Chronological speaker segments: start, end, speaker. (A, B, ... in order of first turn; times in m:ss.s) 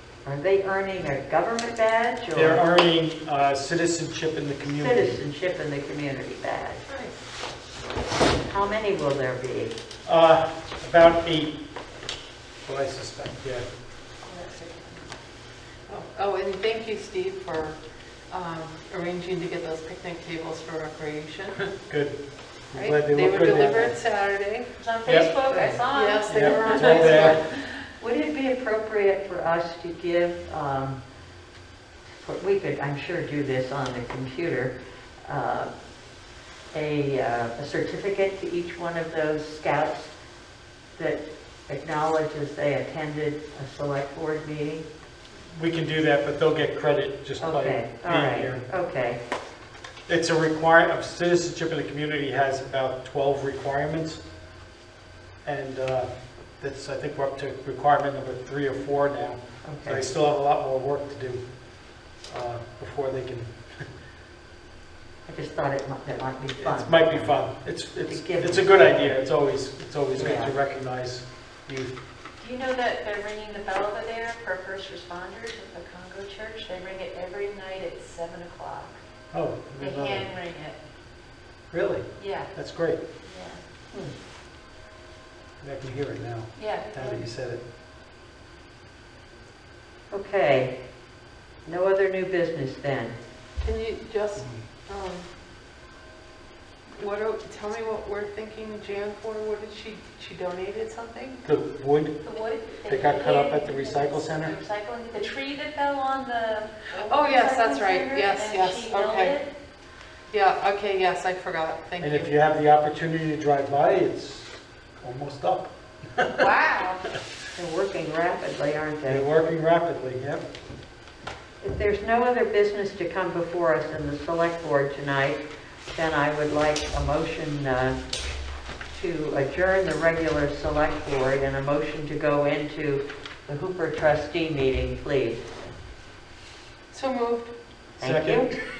0:00.2-0:02.6 A
0:02.3-0:05.2 B
0:04.6-0:06.8 A
0:06.9-0:07.1 C
0:08.4-0:09.8 A
0:10.0-0:11.6 B
0:12.6-0:13.6 B
0:14.2-0:15.1 D
0:15.9-0:17.8 C
0:18.3-0:21.7 C
0:21.8-0:22.2 B
0:22.7-0:24.0 B
0:22.8-0:24.7 C
0:24.8-0:27.8 D
0:25.0-0:25.3 B
0:25.5-0:25.8 A
0:25.9-0:27.4 C
0:26.2-0:27.4 B
0:28.0-0:31.0 A
0:32.1-0:34.7 A
0:35.2-0:35.7 A
0:36.7-0:40.1 A
0:41.0-0:44.8 A
0:45.5-0:48.6 B
0:47.4-0:49.2 A
0:50.1-0:54.2 B
0:55.4-1:01.4 B
0:59.6-1:00.0 A
1:02.2-1:03.8 B
1:05.2-1:07.4 A
1:06.6-1:11.9 B
1:08.0-1:09.2 A
1:10.1-1:10.5 A
1:12.4-1:19.0 D
1:19.3-1:20.2 B
1:19.8-1:20.8 D
1:21.7-1:23.0 B
1:22.2-1:22.5 D
1:23.2-1:23.6 D
1:25.6-1:27.6 B
1:26.6-1:27.2 D
1:30.1-1:30.8 A
1:31.6-1:33.2 A
1:33.6-1:35.3 C
1:36.9-1:41.4 C
1:41.4-1:42.2 B
1:42.2-1:49.5 D
1:42.8-1:44.6 B
1:46.9-1:49.4 C
1:50.3-1:52.3 C
1:52.0-1:56.5 B
1:56.3-1:57.0 D
1:57.5-1:59.2 A
1:59.0-2:00.4 B
2:01.6-2:08.0 A
2:08.9-2:15.4 A
2:16.9-2:17.5 C
2:18.0-2:18.5 B
2:18.0-2:18.5 A